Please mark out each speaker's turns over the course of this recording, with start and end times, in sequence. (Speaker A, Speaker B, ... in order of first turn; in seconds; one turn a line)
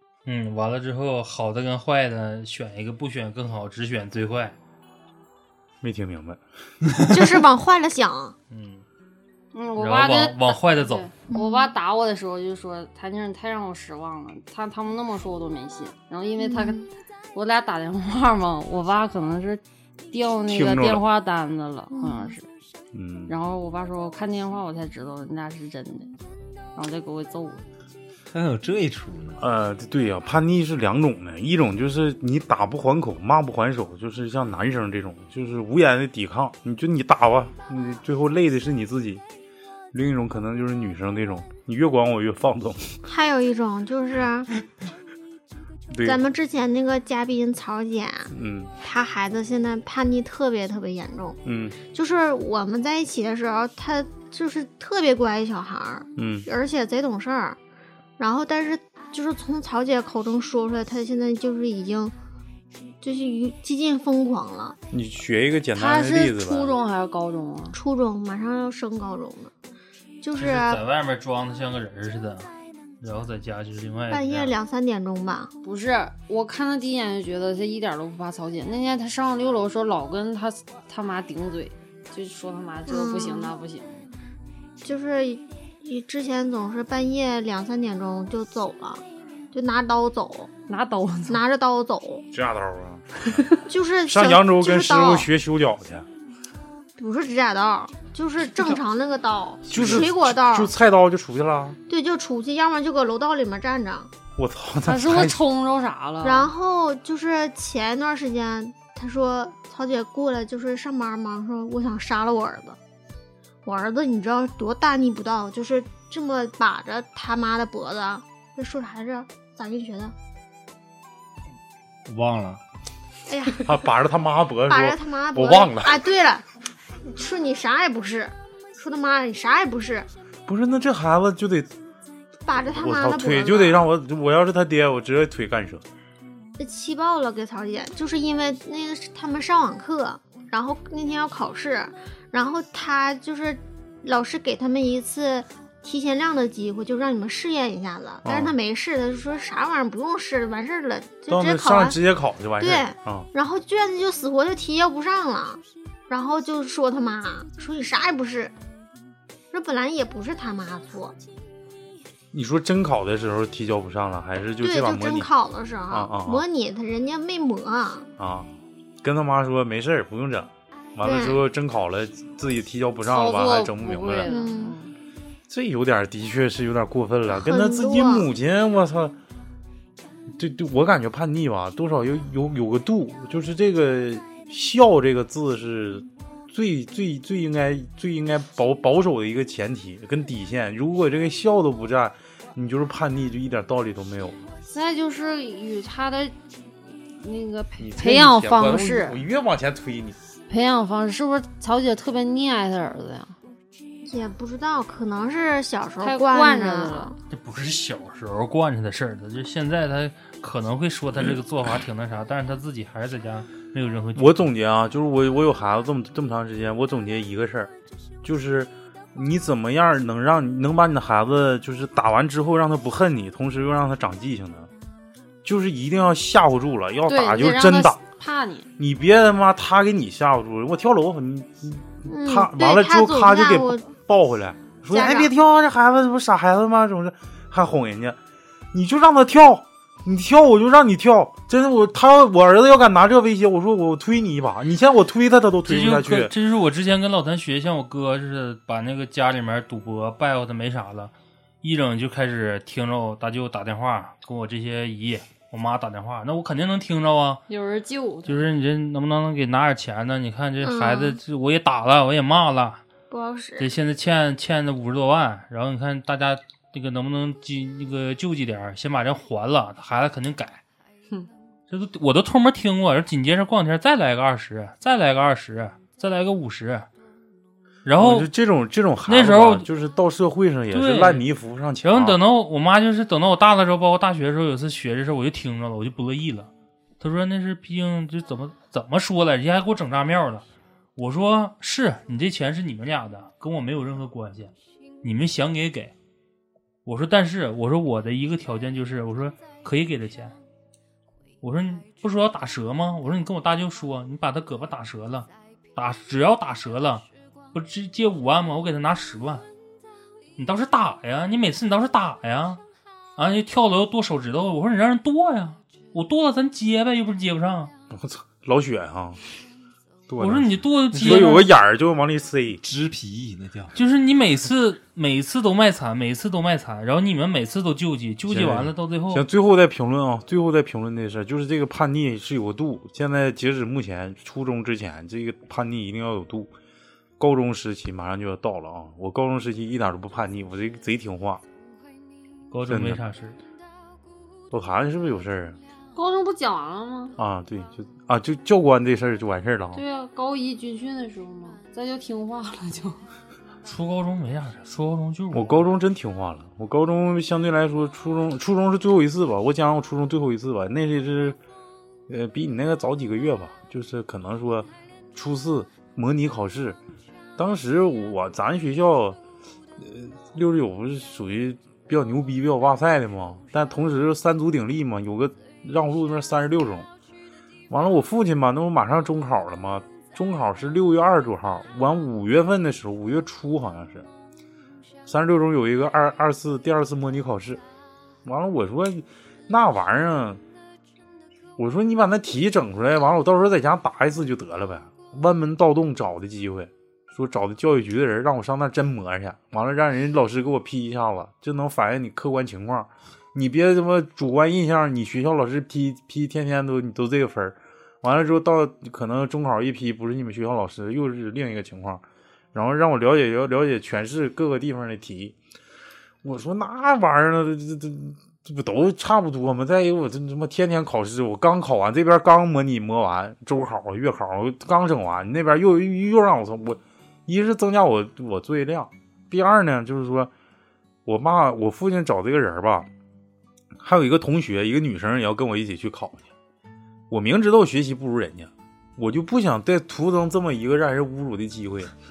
Speaker A: 0.3-4.6
Speaker B: 5.8-6.4
Speaker C: 7.0-8.4
Speaker A: 8.5-8.8
Speaker D: 9.5-22.5
Speaker A: 9.8-11.1
Speaker C: 11.3-11.7
Speaker C: 16.4-16.9
Speaker B: 20.5-21.0
Speaker C: 21.9-22.3
Speaker B: 22.9-23.3
Speaker D: 23.3-26.1
Speaker D: 26.8-27.6
Speaker E: 28.3-29.4
Speaker B: 29.4-39.2
Speaker B: 39.9-43.0
Speaker C: 43.1-44.5
Speaker B: 45.9-46.2
Speaker C: 46.0-57.6
Speaker B: 48.3-48.7
Speaker B: 51.5-51.8
Speaker B: 56.2-56.5
Speaker C: 58.2-62.1
Speaker C: 63.0-64.8
Speaker B: 64.9-66.8
Speaker D: 65.7-67.8
Speaker C: 67.7-69.5
Speaker C: 70.2-70.8
Speaker A: 70.3-72.5
Speaker A: 73.0-74.6
Speaker C: 74.1-75.5
Speaker D: 75.6-84.1
Speaker C: 82.9-83.5
Speaker C: 84.8-90.5
Speaker D: 90.7-91.4
Speaker C: 91.3-92.3
Speaker B: 92.3-93.4
Speaker C: 93.7-95.3
Speaker B: 94.1-96.1
Speaker C: 97.0-100.7
Speaker B: 99.7-101.8
Speaker C: 101.9-104.1
Speaker B: 104.4-105.4
Speaker D: 104.8-106.5
Speaker C: 106.2-112.8
Speaker C: 113.7-120.1
Speaker E: 122.1-122.6
Speaker C: 123.3-123.7
Speaker B: 123.6-126.0
Speaker C: 124.7-126.4
Speaker C: 127.0-130.1
Speaker B: 130.5-131.7
Speaker C: 132.5-133.9
Speaker B: 132.6-135.8
Speaker C: 136.6-152.0
Speaker B: 148.2-148.6
Speaker B: 151.3-153.3
Speaker C: 152.6-158.6
Speaker C: 159.5-161.2
Speaker B: 162.3-165.3
Speaker C: 164.6-168.1
Speaker B: 165.9-166.4
Speaker B: 168.2-168.5
Speaker B: 169.0-174.3
Speaker C: 171.0-171.4
Speaker D: 173.1-174.9
Speaker C: 174.3-174.8
Speaker B: 175.5-179.2
Speaker C: 177.3-178.3
Speaker B: 180.4-194.4
Speaker D: 194.7-196.3
Speaker D: 197.2-199.2
Speaker B: 197.8-200.2
Speaker D: 200.5-203.3
Speaker C: 204.1-207.2
Speaker D: 206.0-207.1
Speaker A: 207.3-214.5
Speaker B: 214.2-217.7
Speaker B: 218.2-224.7
Speaker B: 225.4-228.0
Speaker D: 227.1-228.7
Speaker B: 228.8-238.2
Speaker C: 232.1-233.9
Speaker C: 234.9-235.3
Speaker B: 238.7-246.3
Speaker A: 245.7-257.4
Speaker D: 257.5-258.4
Speaker A: 258.3-262.8
Speaker C: 260.6-261.2
Speaker C: 263.1-263.7
Speaker A: 263.6-270.6
Speaker A: 271.7-276.9
Speaker A: 277.9-278.3
Speaker B: 278.0-282.2
Speaker A: 279.1-279.7
Speaker A: 280.7-281.3
Speaker A: 281.8-295.9
Speaker A: 296.9-300.4
Speaker A: 301.4-309.5
Speaker A: 310.4-312.6
Speaker A: 313.2-317.7
Speaker B: 317.9-319.2
Speaker B: 320.1-322.6
Speaker A: 320.2-321.5
Speaker E: 321.0-321.3
Speaker E: 322.6-323.8
Speaker A: 323.8-329.2
Speaker B: 328.3-336.5
Speaker B: 337.2-341.4
Speaker A: 342.5-343.4
Speaker B: 342.7-343.0
Speaker B: 344.5-345.6
Speaker D: 345.9-347.2
Speaker B: 347.2-349.8
Speaker D: 349.7-353.0
Speaker A: 353.6-355.6
Speaker B: 355.3-361.4
Speaker B: 362.1-366.8
Speaker B: 367.4-369.2
Speaker B: 369.8-376.9
Speaker B: 377.7-384.1
Speaker B: 385.1-387.6
Speaker B: 388.2-390.4
Speaker B: 391.6-412.0
Speaker B: 412.5-415.4
Speaker B: 416.2-430.3
Speaker B: 431.1-432.9
Speaker B: 433.8-436.3
Speaker B: 437.1-441.9